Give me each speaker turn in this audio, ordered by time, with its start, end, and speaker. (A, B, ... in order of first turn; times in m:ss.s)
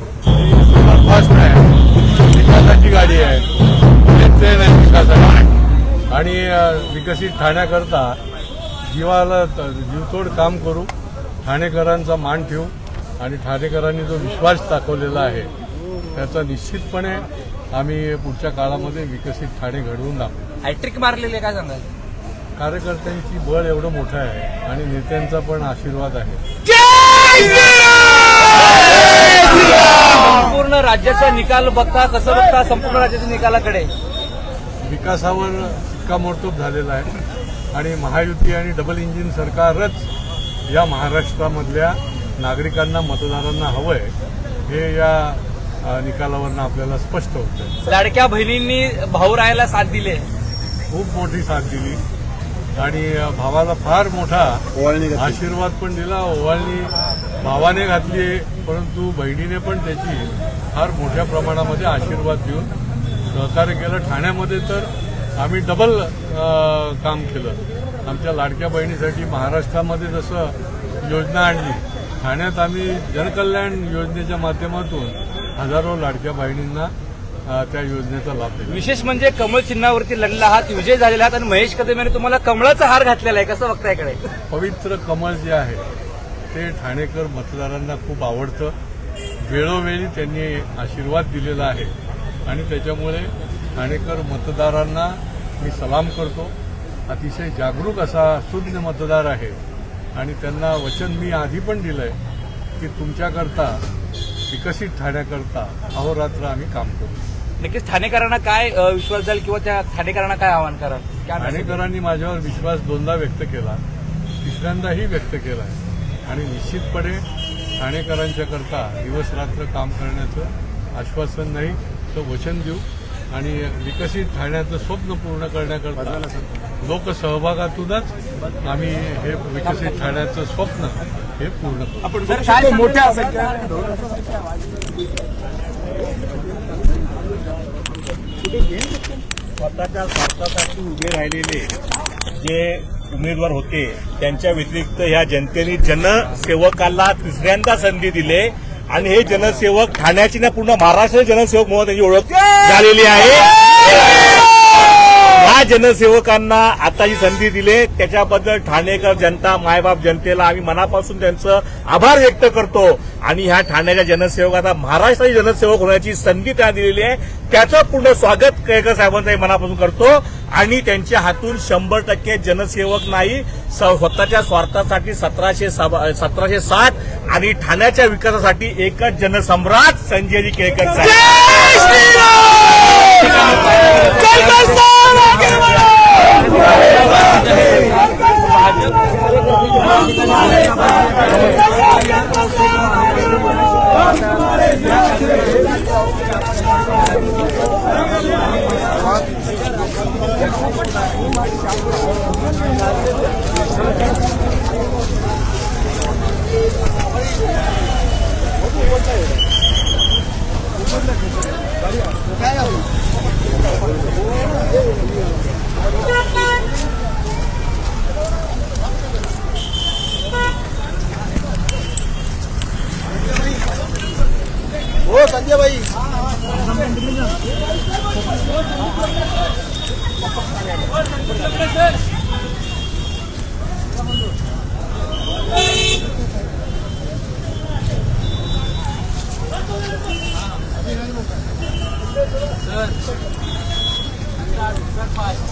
0:00.4-0:03.5 A
0:04.1-0:05.4 A
0:06.1-0:08.2 A
0:08.8-0:10.9 A
0:11.4-0:15.5 A
0:16.1-0:20.4 A
0:20.6-0:21.9 B
0:22.6-0:26.4 A
0:27.0-0:27.8 B
0:28.9-0:33.9 B
0:34.8-0:37.2 A
0:37.7-0:40.1 A
0:40.7-0:44.1 A
0:44.7-0:47.8 A
0:47.8-0:50.3 B
0:50.9-0:52.0 A
0:52.8-1:02.7 A
1:03.3-1:16.9 A
1:17.5-1:18.9 A
1:18.7-1:24.3 B
1:24.5-1:25.8 A
1:26.5-1:28.8 A
1:29.4-1:32.0 A
1:32.5-1:36.5 A
1:37.1-1:39.6 A
1:40.2-1:42.2 A
1:42.8-1:43.8 A
1:44.5-1:47.2 A
1:47.6-1:51.8 B
1:51.4-1:53.8 A
1:54.4-1:57.2 A
1:57.8-2:12.2 A
2:12.2-2:13.6 B
2:19.6-2:21.8 C
2:22.4-2:34.4 C
2:35.0-3:01.7 C